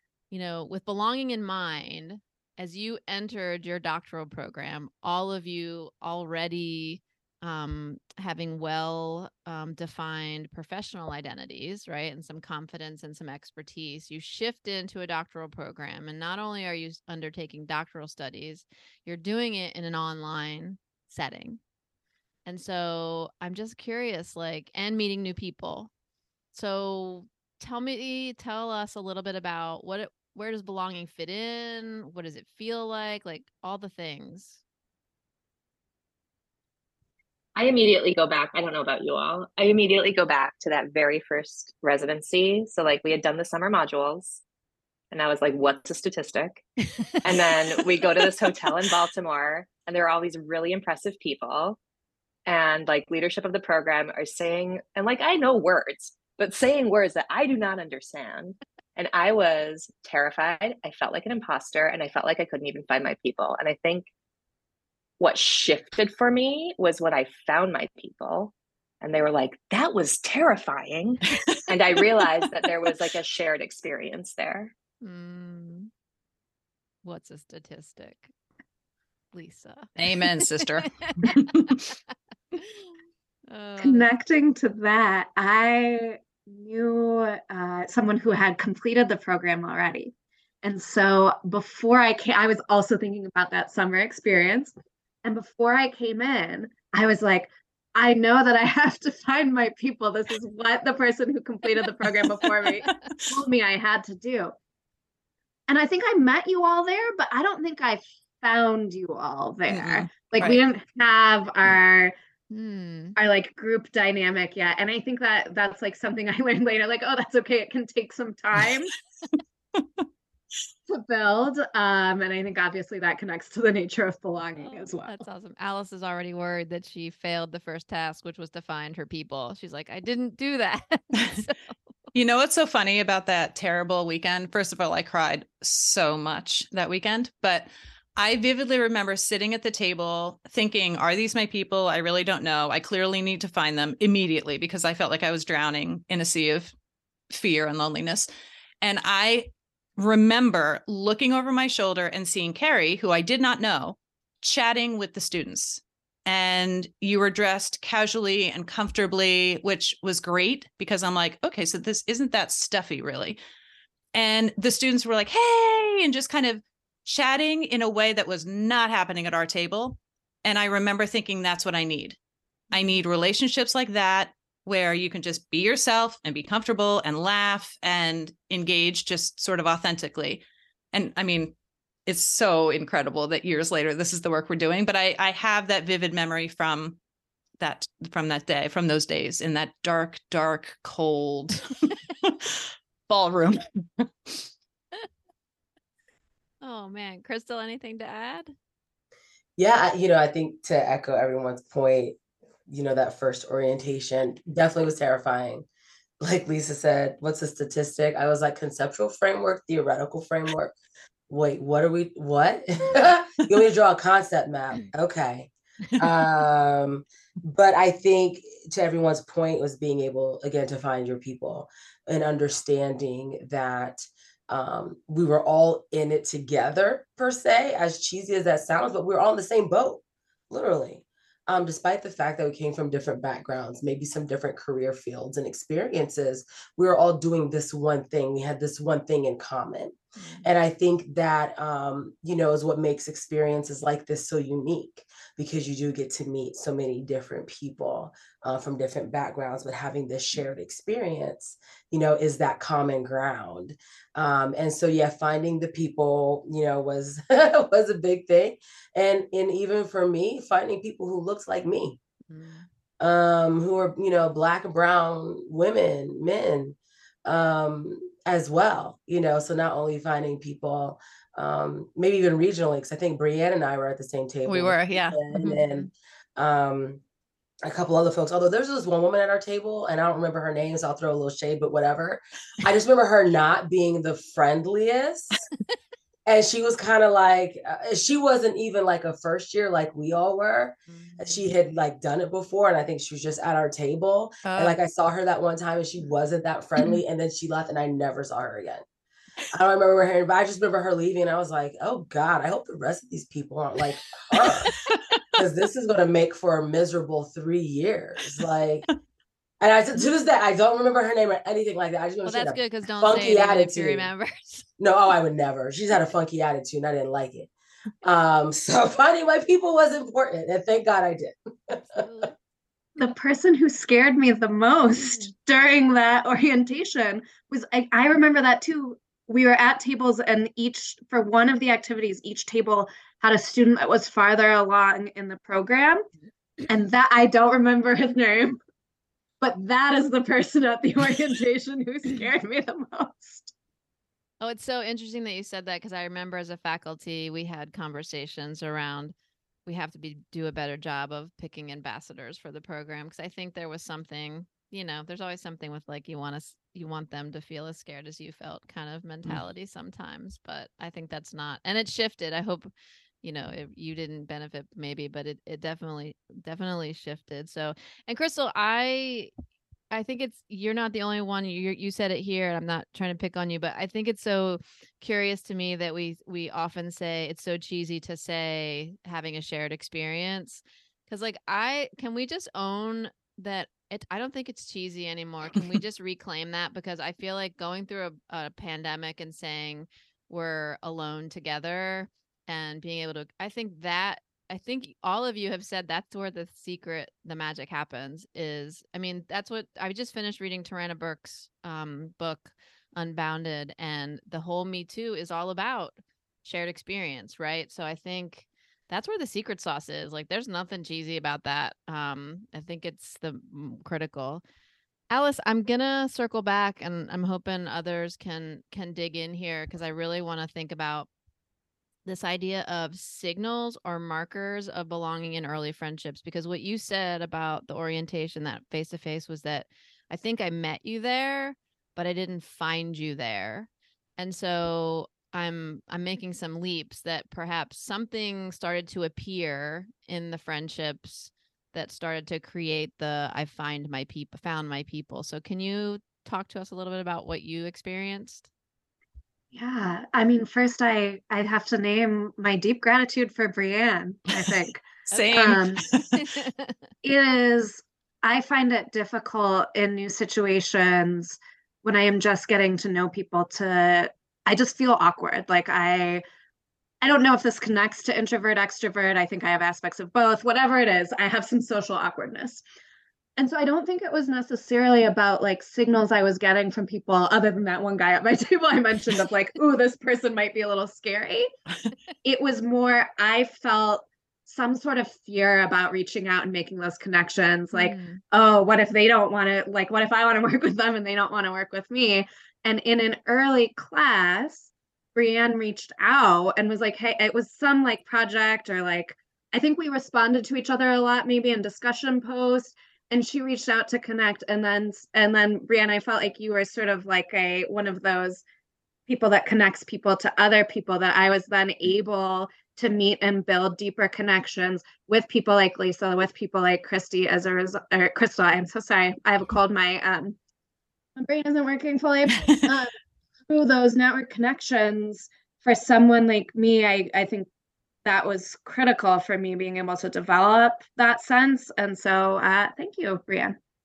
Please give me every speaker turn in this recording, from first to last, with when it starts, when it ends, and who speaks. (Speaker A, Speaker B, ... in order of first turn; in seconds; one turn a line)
Speaker A: 0.3-21.6
Speaker A: 22.4-25.9
Speaker A: 26.5-34.6
Speaker B: 37.5-44.4
Speaker B: 45.1-46.6
Speaker B: 47.2-51.8
Speaker B: 52.5-64.1
Speaker B: 65.2-74.7
Speaker C: 72.0-72.3
Speaker A: 75.0-75.9
Speaker A: 77.0-78.3
Speaker A: 79.3-80.4
Speaker C: 80.0-81.8
Speaker A: 82.6-82.9
Speaker A: 83.5-84.1
Speaker D: 83.8-90.1
Speaker D: 90.6-104.5
Speaker C: 102.7-103.3
Speaker D: 105.7-112.1
Speaker C: 109.7-110.6
Speaker A: 112.5-113.1
Speaker D: 113.2-118.9
Speaker C: 119.8-120.0
Speaker D: 120.9-125.2
Speaker A: 124.5-131.7
Speaker C: 132.1-146.7
Speaker C: 147.3-148.3
Speaker C: 148.8-163.4
Speaker C: 164.1-172.2
Speaker A: 172.7-173.0
Speaker C: 172.7-181.5
Speaker C: 182.1-187.0
Speaker C: 187.6-194.5
Speaker A: 196.6-198.5
Speaker E: 199.6-202.2
Speaker E: 202.7-205.7
Speaker E: 206.2-210.7
Speaker E: 211.3-262.0
Speaker A: 240.2-240.5
Speaker A: 262.3-262.7
Speaker E: 263.0-277.0
Speaker A: 274.5-275.9
Speaker E: 277.6-285.4
Speaker E: 286.2-298.8
Speaker A: 290.9-291.4
Speaker C: 294.4-294.7
Speaker E: 299.5-304.7
Speaker C: 304.3-305.0
Speaker E: 305.4-308.9
Speaker E: 309.6-314.1
Speaker A: 312.2-314.7
Speaker E: 314.8-317.5
Speaker E: 318.0-322.1
Speaker A: 321.8-322.3
Speaker D: 323.0-336.0
Speaker D: 336.7-338.6
Speaker D: 339.4-343.5
Speaker A: 344.4-349.1
Speaker A: 349.6-362.7
Speaker A: 363.2-369.3
Speaker A: 369.9-414.4
Speaker A: 415.1-421.1
Speaker A: 422.1-448.5
Speaker D: 449.5-454.8
Speaker A: 455.1-455.6
Speaker C: 455.1-456.2
Speaker D: 455.3-455.8
Speaker A: 456.1-456.7
Speaker D: 457.0-466.2
Speaker D: 467.0-472.6
Speaker D: 473.4-481.5
Speaker D: 482.2-508.4
Speaker A: 487.7-488.2
Speaker D: 509.1-520.4
Speaker D: 521.1-522.9
Speaker D: 523.5-527.5
Speaker D: 528.0-533.5